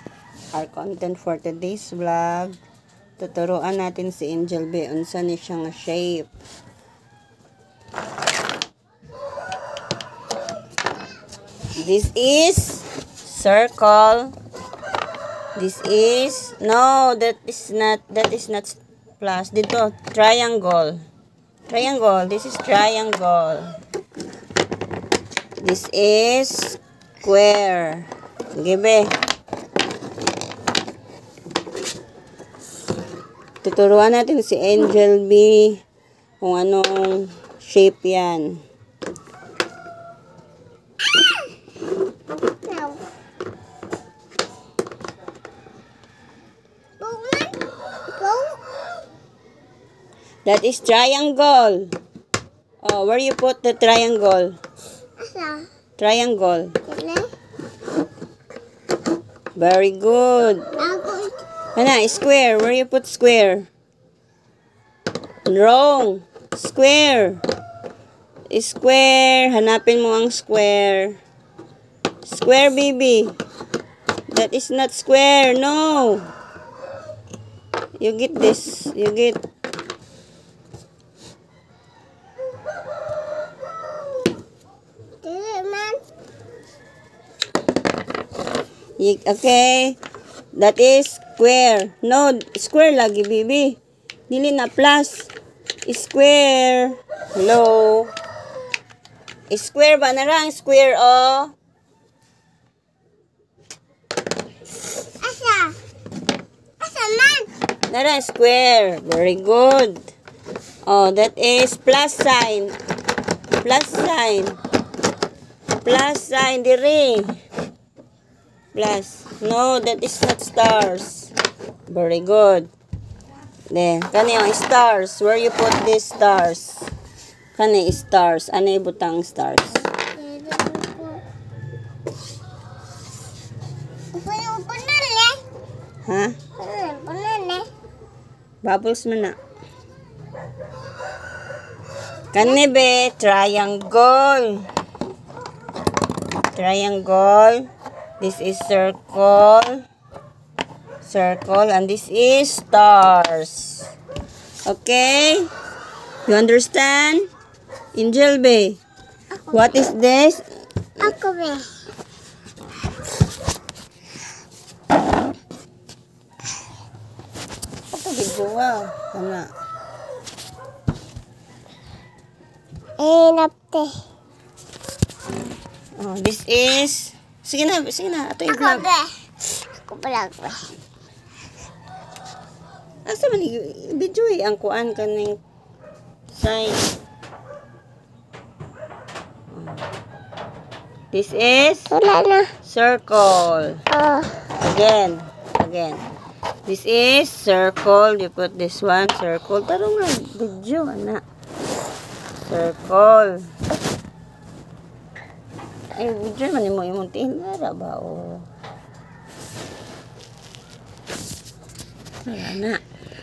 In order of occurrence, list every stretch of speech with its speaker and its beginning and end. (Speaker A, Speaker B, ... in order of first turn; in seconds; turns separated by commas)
Speaker A: 0.5-2.6, Speaker A: 3.2-6.3, Speaker A: 11.8-14.3, Speaker A: 15.5-21.0, Speaker A: 21.7-23.8, Speaker A: 25.6-29.1, Speaker A: 33.6-35.8, Speaker A: 36.4-38.6, Speaker B: 42.3-43.0, Speaker B: 47.0-47.6, Speaker B: 48.1-48.6, Speaker A: 50.4-51.9, Speaker A: 52.8-54.6, Speaker B: 55.2-55.6, Speaker A: 56.0-56.8, Speaker B: 56.9-57.3, Speaker A: 59.6-60.7, Speaker B: 60.8-61.4, Speaker A: 61.7-63.7, Speaker A: 65.5-67.4, Speaker A: 68.5-71.2, Speaker A: 72.2-73.4, Speaker A: 74.3-76.3, Speaker A: 78.0-79.4, Speaker B: 85.2-86.0, Speaker A: 89.0-90.0, Speaker A: 90.5-95.3, Speaker A: 95.8-98.1, Speaker A: 99.5-101.5, Speaker B: 105.2-105.8, Speaker B: 106.8-107.5, Speaker A: 107.9-110.1, Speaker A: 110.8-112.8, Speaker A: 113.6-114.6, Speaker A: 115.8-117.4, Speaker A: 118.7-121.3, Speaker A: 121.9-122.7, Speaker A: 123.7-126.9, Speaker A: 127.5-129.9, Speaker B: 130.0-131.2, Speaker B: 134.1-135.4, Speaker A: 136.1-136.4, Speaker B: 136.6-137.7, Speaker A: 138.6-139.4, Speaker A: 142.3-144.7, Speaker A: 146.5-149.8, Speaker A: 151.0-153.9, Speaker A: 154.6-155.5, Speaker A: 156.2-157.3, Speaker A: 157.9-158.8, Speaker A: 159.5-160.4, Speaker B: 161.0-161.8, Speaker A: 167.9-169.5, Speaker B: 173.0-174.0, Speaker A: 176.0-178.9, Speaker B: 178.5-180.7, Speaker A: 183.1-185.4, Speaker A: 186.3-186.8, Speaker A: 189.5-189.8, Speaker A: 191.1-191.9, Speaker B: 191.9-192.5, Speaker A: 192.6-193.8, Speaker B: 193.9-194.3, Speaker A: 194.6-196.0, Speaker A: 196.7-201.2, Speaker A: 202.4-203.5, Speaker A: 205.9-208.5, Speaker A: 212.2-212.8